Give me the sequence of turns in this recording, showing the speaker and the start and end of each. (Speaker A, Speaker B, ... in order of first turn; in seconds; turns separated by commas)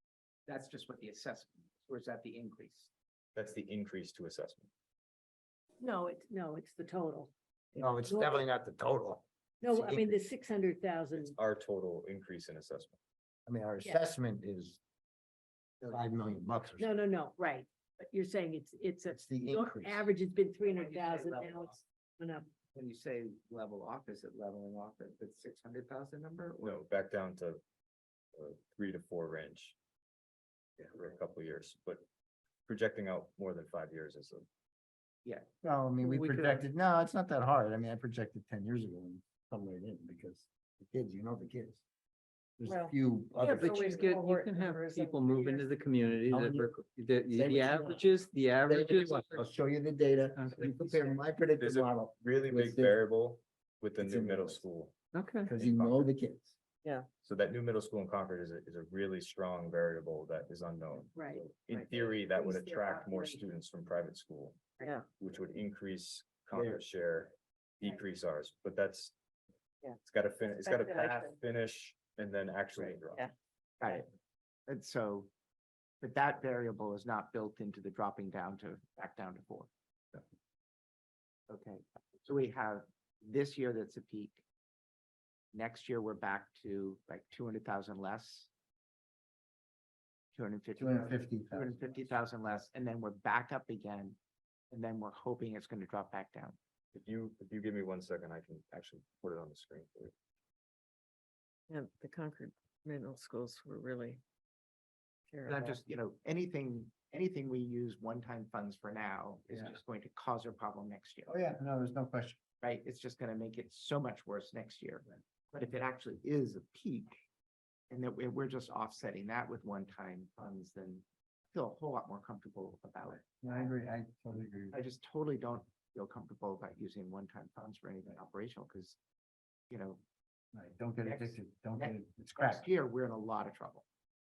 Speaker A: 0.5-2.9, Speaker B: 3.3-4.7, Speaker C: 5.8-8.4, Speaker D: 7.8-10.2, Speaker C: 9.6-11.3, Speaker B: 11.1-13.0, Speaker D: 13.4-14.8, Speaker D: 15.8-16.9, Speaker C: 16.8-22.5, Speaker D: 19.1-20.1, Speaker A: 20.6-21.8, Speaker A: 22.7-26.8, Speaker B: 26.6-27.6, Speaker B: 28.3-29.8, Speaker B: 30.9-32.0, Speaker B: 32.7-34.5, Speaker D: 35.6-41.8, Speaker E: 36.0-36.6, Speaker D: 42.6-44.0, Speaker F: 42.6-45.6, Speaker E: 43.4-49.4, Speaker D: 46.3-46.7, Speaker D: 47.3-48.0, Speaker D: 48.7-53.0, Speaker E: 50.3-51.2, Speaker B: 51.6-54.9, Speaker D: 54.0-54.6, Speaker E: 55.1-55.5, Speaker D: 55.5-56.5, Speaker B: 55.6-56.1, Speaker B: 57.2-69.1, Speaker C: 61.1-63.5, Speaker B: 70.0-73.2, Speaker F: 70.6-71.3, Speaker A: 73.8-74.1, Speaker A: 74.7-75.3, Speaker A: 76.0-79.7, Speaker A: 81.5-84.4, Speaker A: 85.5-88.5, Speaker A: 90.3-94.2, Speaker D: 90.8-92.1, Speaker A: 94.7-96.6, Speaker B: 96.9-100.1, Speaker F: 101.7-104.2, Speaker F: 105.3-105.7, Speaker A: 105.5-111.3, Speaker D: 109.5-109.8, Speaker D: 111.3-112.4, Speaker A: 112.6-117.2, Speaker A: 117.9-123.7, Speaker D: 123.2-124.8, Speaker A: 124.7-129.0, Speaker A: 129.7-130.0, Speaker D: 130.5-132.7, Speaker A: 131.0-133.8